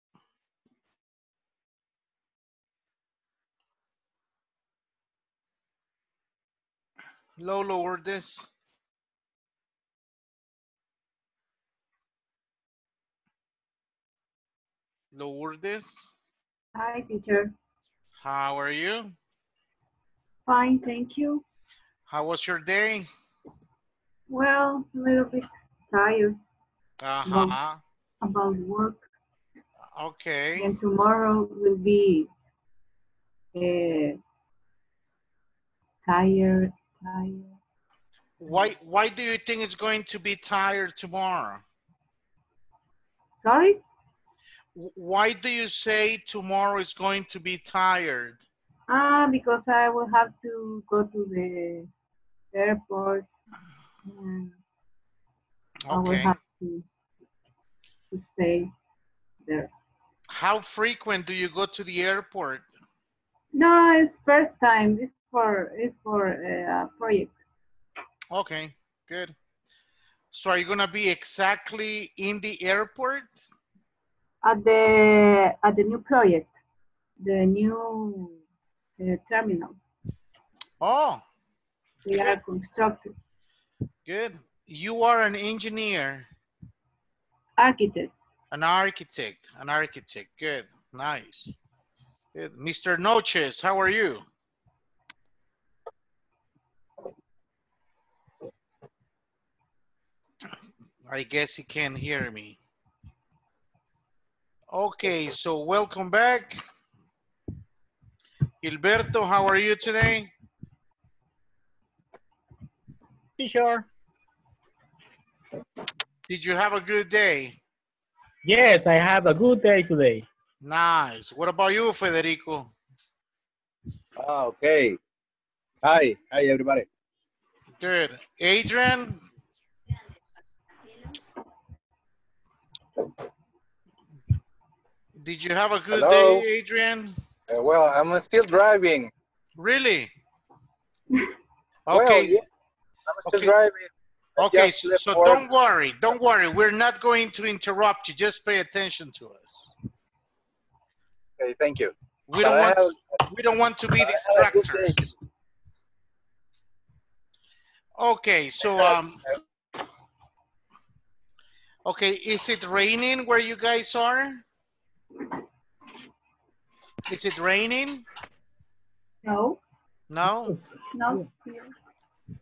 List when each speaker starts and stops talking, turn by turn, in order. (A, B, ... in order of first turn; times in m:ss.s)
0:07.4-0:08.5 A
0:15.1-0:16.1 A
0:16.7-0:17.5 B
0:18.2-0:19.1 A
0:20.4-0:21.4 B
0:22.1-0:23.1 A
0:24.3-0:26.4 B
0:27.0-0:27.8 A
0:27.2-0:27.6 B
0:28.2-0:29.0 B
0:29.9-0:30.7 A
0:30.6-0:32.3 B
0:33.5-0:34.2 B
0:36.0-0:37.6 B
0:38.4-0:41.6 A
0:43.4-0:43.8 B
0:44.8-0:48.4 A
0:48.9-0:51.9 B
0:52.5-0:53.3 B
0:54.0-0:54.5 B
0:55.8-0:56.3 A
0:55.9-0:56.8 B
0:58.1-0:58.7 B
1:00.3-1:02.6 A
1:03.5-1:07.3 B
1:08.3-1:09.3 A
1:10.3-1:13.3 A
1:14.4-1:16.5 B
1:17.2-1:18.4 B
1:19.0-1:19.8 B
1:20.8-1:21.2 A
1:22.0-1:23.1 B
1:22.1-1:22.4 A
1:24.0-1:26.2 A
1:27.6-1:28.1 B
1:28.5-1:31.6 A
1:32.3-1:34.2 A
1:41.0-1:42.6 A
1:44.7-1:46.6 A
1:48.6-1:50.3 A
1:53.4-1:53.8 C
1:56.3-1:57.5 A
1:58.4-2:00.2 C
2:00.6-2:02.7 A
2:04.2-2:05.0 D
2:05.8-2:06.8 D
2:07.8-2:09.2 A
2:15.2-2:17.1 A
2:15.9-2:16.4 D
2:17.5-2:19.1 D
2:19.6-2:20.1 A
2:21.9-2:22.4 A
2:21.9-2:22.4 D
2:23.1-2:25.4 D
2:23.2-2:23.6 A
2:24.4-2:29.7 A
2:31.4-2:32.9 D
2:32.3-2:35.1 A
2:34.0-2:35.1 D
2:38.0-2:39.2 A
2:41.8-2:44.4 A
2:47.1-2:48.0 A
2:49.2-2:49.6 B
2:50.1-2:50.6 A
2:50.5-2:51.2 C
2:50.9-2:51.7 B